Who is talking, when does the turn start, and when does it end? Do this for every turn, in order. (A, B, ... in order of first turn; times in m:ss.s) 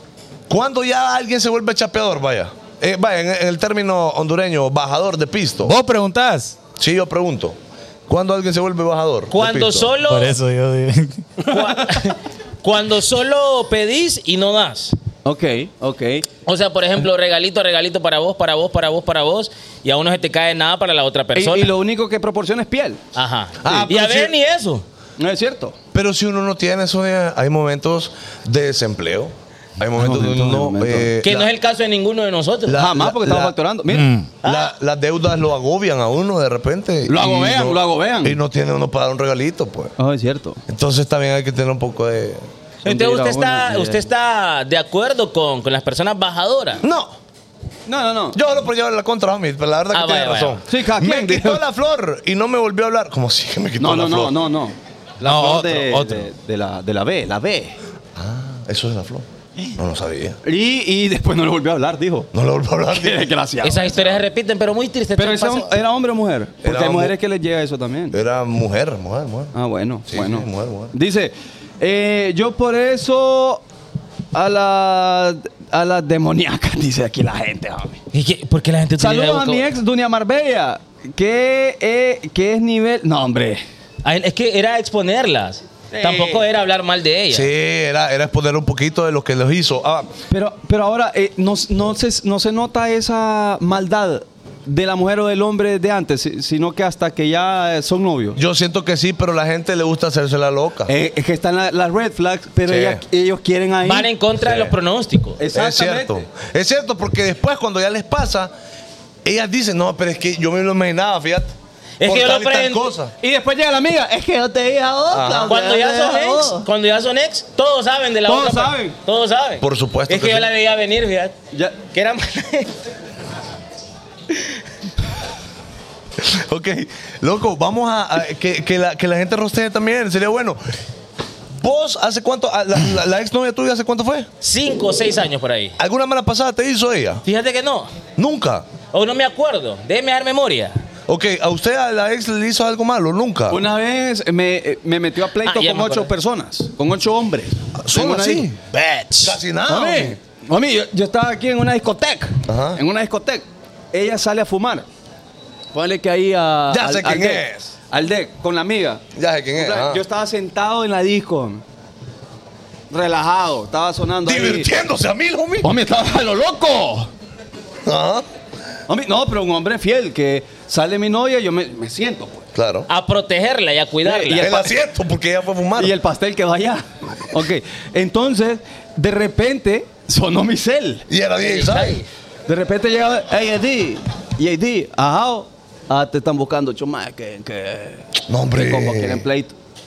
0:00.5-0:05.8 A
0:05.6-0:06.6 B
0:06.8-0:07.6 A
0:08.1-0:09.9 A
0:09.3-0:10.4 C
0:10.1-0:11.3 B
0:11.4-0:15.0 C
0:15.2-0:16.3 D
0:16.5-0:21.7 C
0:21.4-0:23.0 D
0:23.2-0:24.8 C
0:23.6-0:24.3 A
0:25.2-0:25.8 D
0:25.9-0:31.5 A
0:30.0-0:31.1 D
0:31.2-0:32.8 C
0:32.7-0:33.6 A
0:32.8-0:34.1 D
0:33.9-0:34.3 B
0:34.4-0:34.7 C
0:34.4-0:39.9 A
0:37.1-0:38.4 D
0:40.0-0:40.6 D
0:40.7-0:42.4 A
0:42.8-0:44.0 D
0:42.8-0:46.8 C
0:46.8-0:47.2 A
0:47.9-0:48.4 D
0:48.3-0:54.4 A
0:49.9-0:50.6 C
0:50.7-0:51.6 D
0:53.8-0:57.8 D
0:55.2-0:56.3 B
0:58.2-1:00.4 A
1:00.4-1:02.3 D
1:02.3-1:03.3 A
1:02.9-1:04.0 D
1:03.6-1:05.7 C
1:05.2-1:08.2 D
1:06.6-1:07.2 A
1:08.1-1:09.5 A
1:09.5-1:13.6 D
1:10.1-1:10.9 A
1:14.3-1:18.0 D
1:18.1-1:19.7 C
1:19.0-1:23.6 D
1:24.0-1:27.5 C
1:25.9-1:26.5 D
1:27.3-1:30.1 A
1:30.3-1:38.4 D
1:38.4-1:40.9 A
1:40.9-1:44.1 D
1:42.7-1:43.0 A
1:43.8-1:45.4 C
1:44.4-1:44.7 A
1:45.4-1:46.2 D
1:45.5-1:48.5 A
1:49.2-1:53.1 A
1:52.0-1:52.9 C
1:53.2-1:56.7 D
1:55.1-1:55.6 A
1:55.5-2:01.4 C
1:58.3-1:59.0 D
1:59.6-2:00.5 A
2:01.5-2:01.8 D
2:01.9-2:02.7 C
2:06.2-2:10.6 A
2:11.6-2:14.3 A
2:14.4-2:15.8 C
2:15.8-2:17.2 A
2:17.2-2:17.9 C
2:18.2-2:18.7 A
2:18.9-2:20.8 C
2:21.1-2:23.6 A
2:23.5-2:28.5 D
2:25.4-2:26.1 C
2:27.8-2:28.6 A
2:29.2-2:30.2 A
2:29.7-2:34.8 D
2:32.5-2:32.8 A
2:35.7-2:39.0 D
2:36.7-2:37.7 A
2:39.2-2:40.0 A
2:39.6-2:41.6 D
2:42.9-2:44.7 D
2:44.2-2:45.7 A
2:45.6-2:47.1 D
2:47.8-2:48.3 A
2:48.9-2:52.4 D
2:52.6-2:52.9 A
2:52.9-2:54.5 C
2:54.0-2:54.7 D
2:54.3-2:56.0 A
2:55.8-3:01.0 D
3:01.1-3:02.0 A
3:01.4-3:02.1 C
3:02.5-3:09.6 D
3:08.3-3:09.2 A